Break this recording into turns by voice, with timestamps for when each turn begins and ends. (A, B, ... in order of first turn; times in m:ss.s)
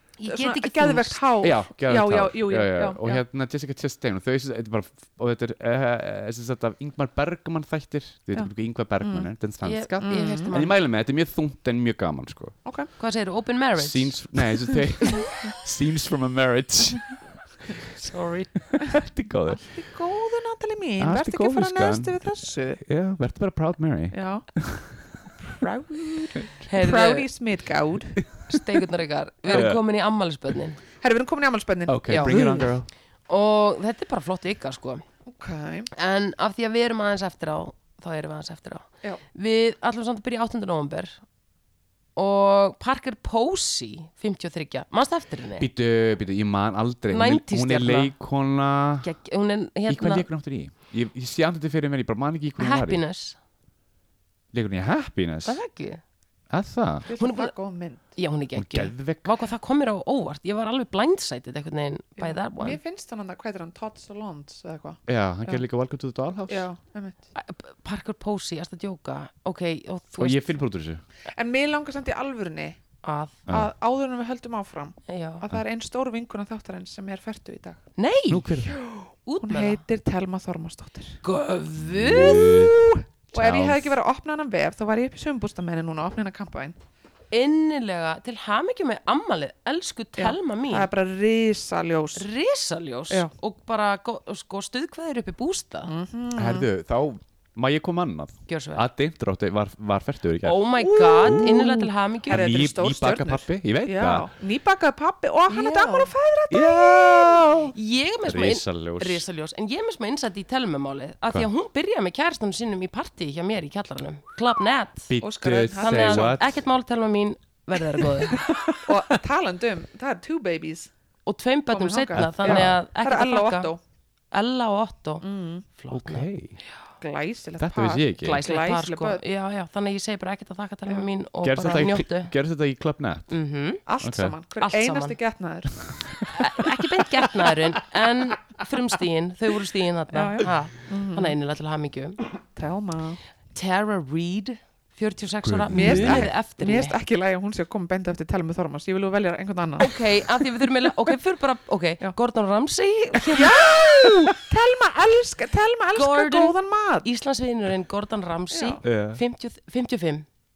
0:00.2-0:01.3 A
0:00.3-0:03.2 B
0:01.4-0:12.6 C
0:08.4-0:09.3 B
0:09.6-0:10.7 A
0:10.0-0:10.5 B
0:12.6-0:12.9 B
0:13.0-0:14.2 A
0:13.8-0:17.2 C
0:17.9-0:18.5 A
0:18.7-0:19.7 C
0:19.5-0:22.8 B
0:21.0-0:22.1 C
0:22.8-0:25.3 C
0:24.1-0:24.5 B
0:25.4-0:28.3 B
0:26.7-0:27.3 A
0:28.5-0:30.8 A
0:29.5-0:29.8 C
0:31.0-0:32.6 B
0:31.9-0:32.9 C
0:32.1-0:32.7 A
0:33.3-0:35.0 A
0:35.3-0:35.9 B
0:35.9-0:41.2 A
0:42.2-0:45.7 A
0:45.6-0:49.1 C
0:47.1-0:48.1 A
0:49.0-0:50.3 A
0:49.9-0:53.0 C
0:52.6-0:53.4 A
0:54.5-0:55.6 C
0:55.4-0:56.0 A
0:56.5-0:57.1 C
0:57.1-0:58.1 B
0:57.2-0:57.5 A
0:58.2-1:02.8 A
0:58.6-0:59.3 C
1:02.2-1:05.6 B
1:05.1-1:06.7 C
1:06.5-1:07.3 B
1:07.4-1:10.6 A
1:10.2-1:11.0 C
1:11.3-1:12.8 B
1:13.0-1:13.4 A
1:13.5-1:17.8 B
1:15.1-1:15.4 A
1:18.0-1:18.6 A
1:18.3-1:18.8 C
1:18.7-1:21.2 B
1:19.3-1:19.8 A
1:21.2-1:22.8 A
1:21.8-1:22.8 C
1:23.3-1:26.8 B
1:23.3-1:24.0 C
1:27.3-1:30.9 A
1:30.2-1:32.3 B
1:32.2-1:35.9 A
1:35.9-1:36.7 B
1:36.4-1:44.3 C
1:38.5-1:38.9 A
1:40.4-1:42.4 A
1:40.8-1:41.7 B
1:42.3-1:47.6 B
1:45.5-1:46.1 A
1:46.5-1:47.7 C
1:47.7-1:55.1 A
1:48.2-1:49.2 C
1:55.1-1:56.6 C
1:55.2-1:56.4 B
1:55.8-1:58.5 A
1:58.4-1:59.1 C
1:58.7-2:00.9 B
2:01.3-2:03.7 A
2:01.7-2:03.8 B
2:02.2-2:02.8 C
2:04.3-2:06.3 A
2:05.2-2:05.7 B
2:05.9-2:06.6 C
2:07.0-2:09.2 B
2:07.6-2:08.4 C
2:08.2-2:12.3 A
2:11.4-2:13.3 C
2:13.3-2:13.8 A
2:13.9-2:15.9 B
2:14.0-2:14.4 C
2:14.6-2:15.2 A
2:16.3-2:22.2 A
2:20.1-2:21.4 B
2:22.6-2:23.2 B
2:23.5-2:27.0 A
2:25.4-2:26.3 C
2:25.7-2:30.0 B
2:29.8-2:34.2 A
2:33.3-2:37.1 B
2:36.0-2:40.3 A
2:38.5-2:38.8 B
2:38.8-2:39.2 C